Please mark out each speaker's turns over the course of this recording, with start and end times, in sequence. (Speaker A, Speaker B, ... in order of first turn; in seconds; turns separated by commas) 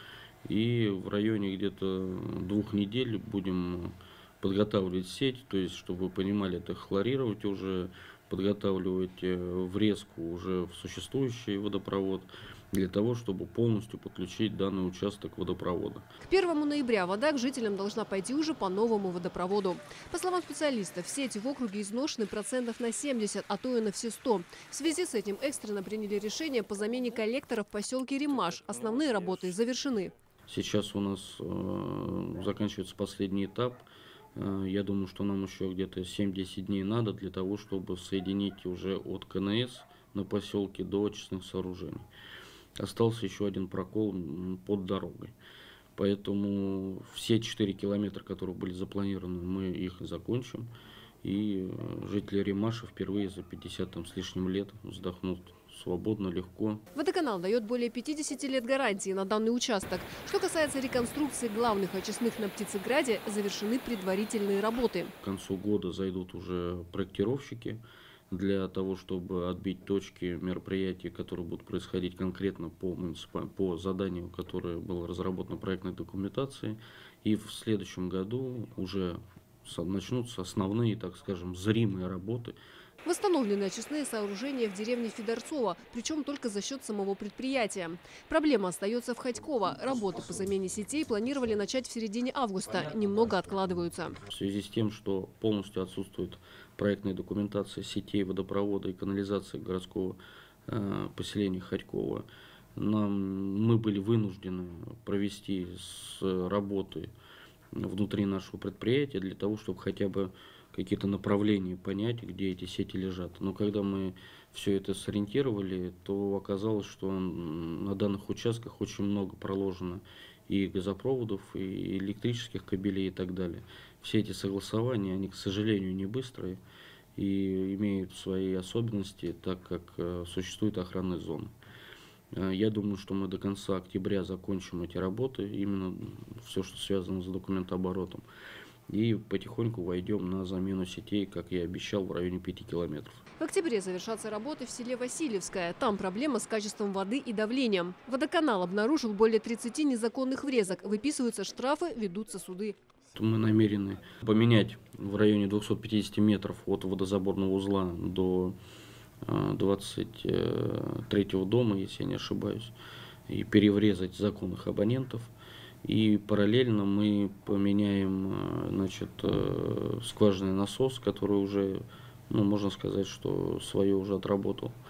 Speaker A: 0.4-16.1, Speaker B: 16.2-30.1, Speaker A: 30.5-42.1, Speaker A: 42.8-45.4, Speaker A: 46.0-50.7, Speaker A: 51.2-56.8, Speaker B: 56.9-65.1, Speaker A: 65.2-82.5, Speaker B: 83.0-94.2, Speaker A: 94.2-107.1, Speaker A: 107.7-126.6, Speaker A: 127.2-131.5, Speaker A: 132.3-138.2, Speaker A: 138.9-143.2, Speaker B: 143.4-152.8, Speaker A: 153.1-158.5, Speaker A: 159.2-162.7, Speaker A: 163.3-165.3, Speaker A: 165.8-174.8